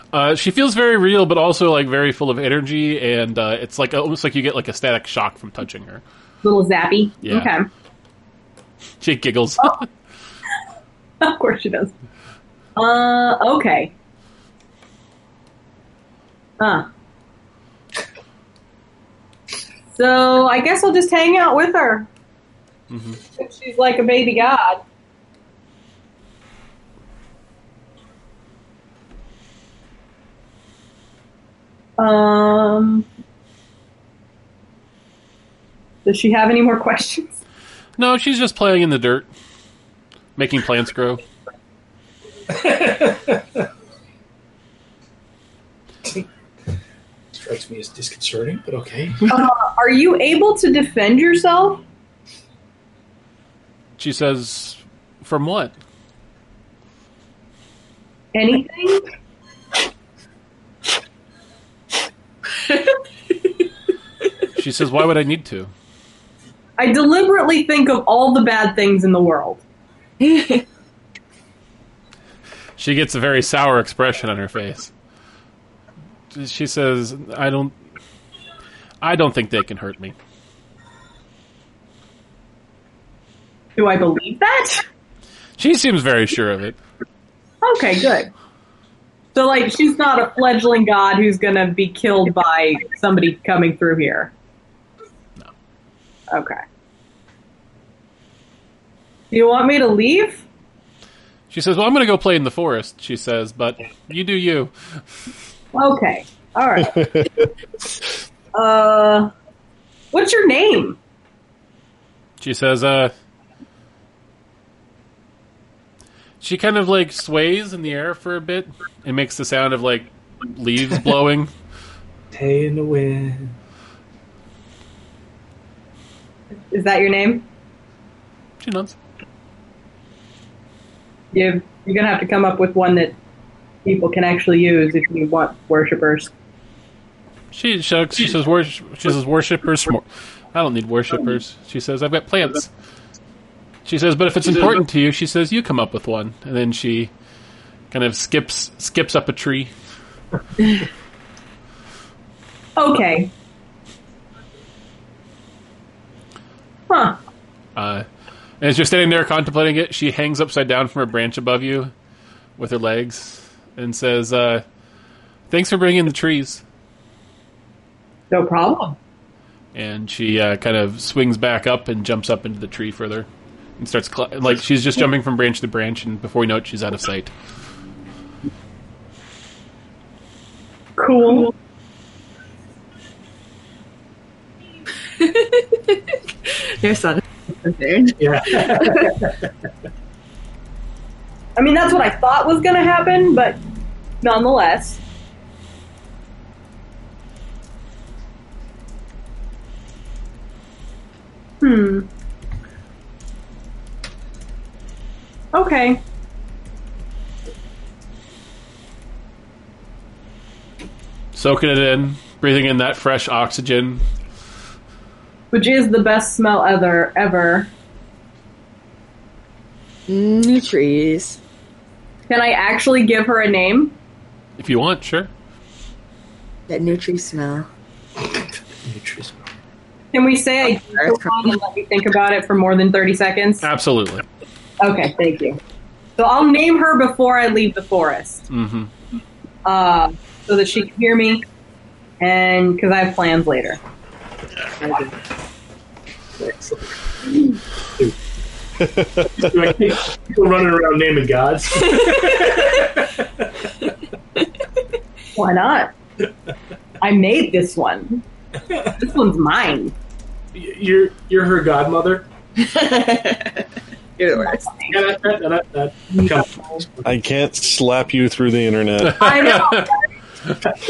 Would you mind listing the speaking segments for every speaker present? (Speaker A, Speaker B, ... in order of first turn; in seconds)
Speaker A: 0.1-6.0, 7.2-7.5, 9.0-9.9, 22.9-23.2, 38.0-39.3, 40.4-41.2, 54.0-55.7, 64.5-65.7, 72.8-74.9, 76.3-77.7, 79.0-80.2, 85.6-86.8, 101.5-104.7, 112.4-113.1, 116.4-121.5, 128.6-128.9, 137.5-142.7, 143.8-147.1, 147.9-149.7, 157.8-158.1, 158.6-161.9, 162.6-164.6, 165.5-166.6, 169.7-177.3, 211.3-214.0, 224.6-225.3, 233.6-234.2, 238.5-238.9, 269.2-269.9
Speaker B: 6.4-7.7, 11.2-11.9, 12.8-13.9, 16.6-16.9, 19.9-22.1, 23.4-24.8, 32.0-33.1, 36.0-37.3, 49.3-51.8, 58.3-59.0, 66.8-69.6, 83.8-84.8, 87.6-88.3, 89.3-94.3, 96.3-96.6, 99.3-100.4, 105.7-107.3, 108.5-109.3, 110.1-111.0, 126.7-127.4, 131.3-133.2, 133.8-136.3, 152.8-153.3, 156.9-157.2, 168.3-169.0, 181.0-181.5, 191.6-193.6, 194.2-195.0, 201.6-202.1, 205.5-206.0, 215.5-217.7, 222.3-223.9, 230.1-233.7, 234.8-235.6, 236.2-238.5, 239.6-241.4, 242.2-243.8, 255.3-255.9, 257.0-258.2, 258.9-259.9, 269.1-270.0
Speaker C: 42.5-43.6, 47.3-49.4, 122.3-123.5, 188.2-189.3, 228.3-229.4, 246.4-248.1, 249.2-253.4, 260.5-262.2, 264.9-267.1
Speaker D: 70.2-70.6, 185.2-189.1, 220.1-221.4, 226.7-227.7, 244.8-245.1, 262.6-263.6, 264.2-265.0
Speaker E: 267.0-269.4